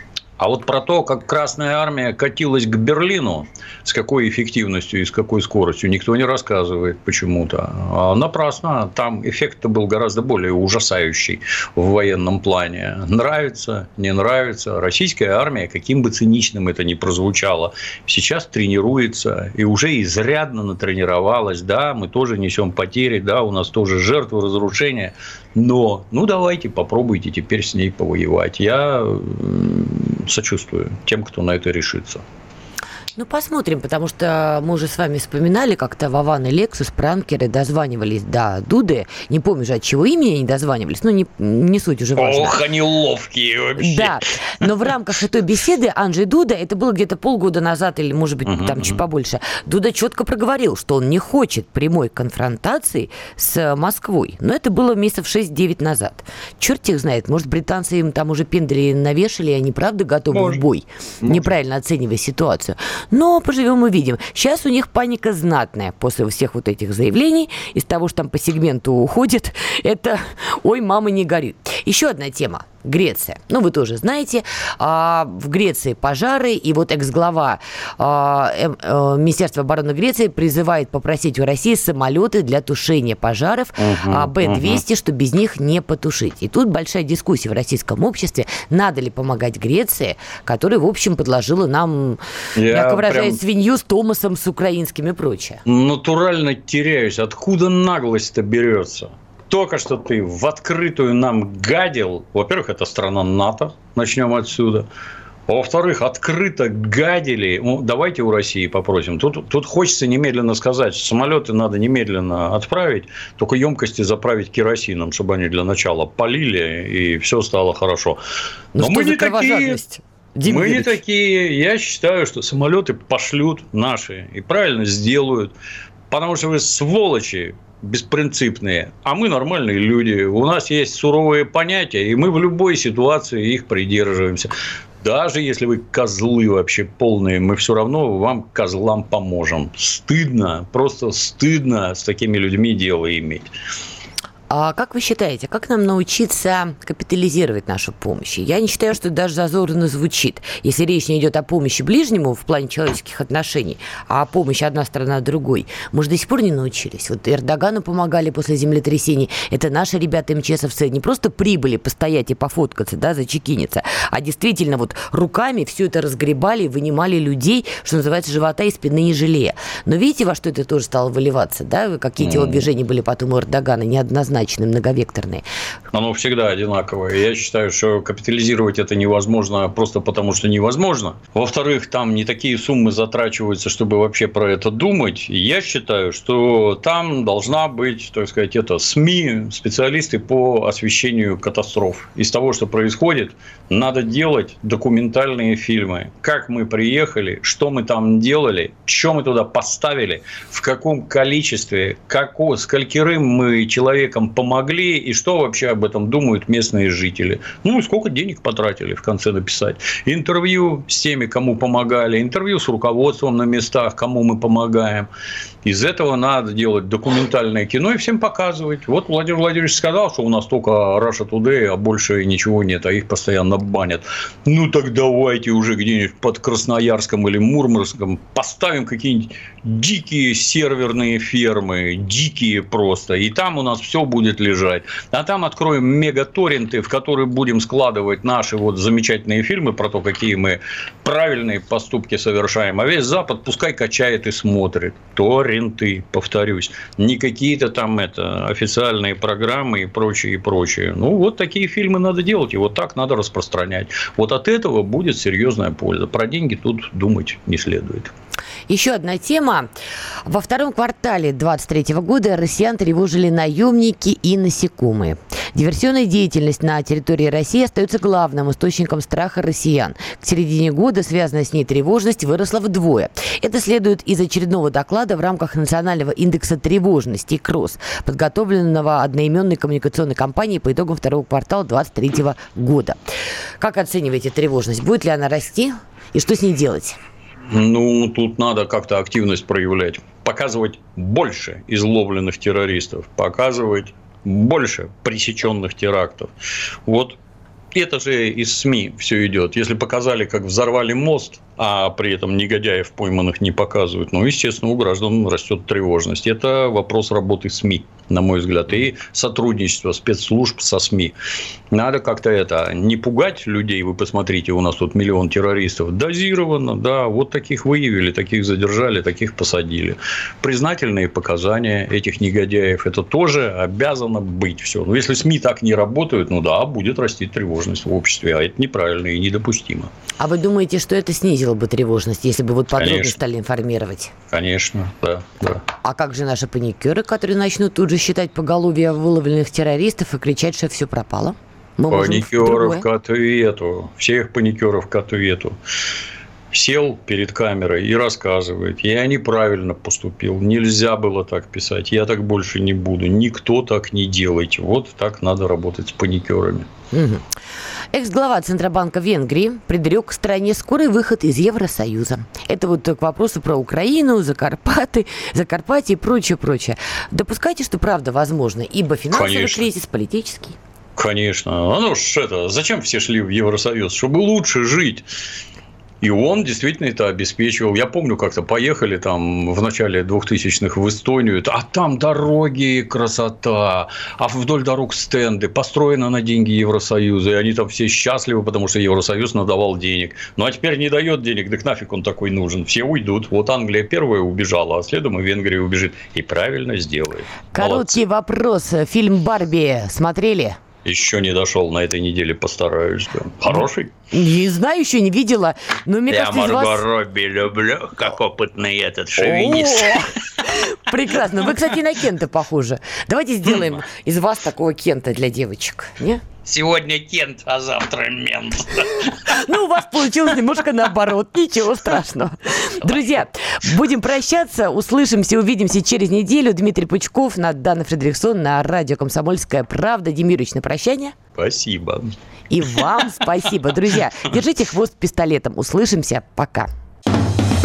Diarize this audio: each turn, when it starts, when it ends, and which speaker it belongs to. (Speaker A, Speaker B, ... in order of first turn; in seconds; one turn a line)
Speaker A: 0.4-32.2
Speaker B: 33.1-42.6
Speaker A: 42.1-44.6
Speaker B: 43.8-95.6
Speaker A: 48.4-49.0
Speaker A: 60.3-60.6
Speaker A: 83.8-84.8
Speaker A: 92.5-93.4
Speaker A: 95.7-104.9
Speaker A: 105.5-118.2
Speaker B: 118.7-121.0
Speaker A: 118.8-119.8
Speaker A: 120.4-125.5
Speaker A: 126.1-134.5
Speaker A: 135.0-143.5
Speaker B: 144.5-175.4
Speaker A: 172.2-172.6
Speaker A: 175.9-215.1
Speaker A: 215.6-258.1
Speaker B: 258.7-259.7
Speaker B: 260.2-283.0
Speaker B: 283.6-287.0
Speaker A: 287.5-296.3
Speaker A: 296.9-297.2
Speaker A: 297.7-311.1
Speaker A: 311.7-329.9
Speaker B: 330.2-334.1
Speaker A: 332.8-333.1
Speaker A: 334.3-335.6
Speaker B: 335.8-342.8
Speaker A: 341.9-345.5
Speaker A: 346.5-356.7
Speaker B: 356.9-357.2
Speaker B: 357.9-370.6
Speaker A: 369.1-369.7
Speaker A: 370.9-375.0
Speaker A: 376.0-398.0
Speaker B: 397.5-400.6
Speaker A: 400.8-403.9
Speaker B: 404.1-406.8
Speaker A: 406.1-410.2
Speaker B: 409.2-416.2
Speaker A: 416.4-419.4
Speaker B: 419.1-431.1
Speaker A: 431.4-432.1
Speaker B: 432.5-436.7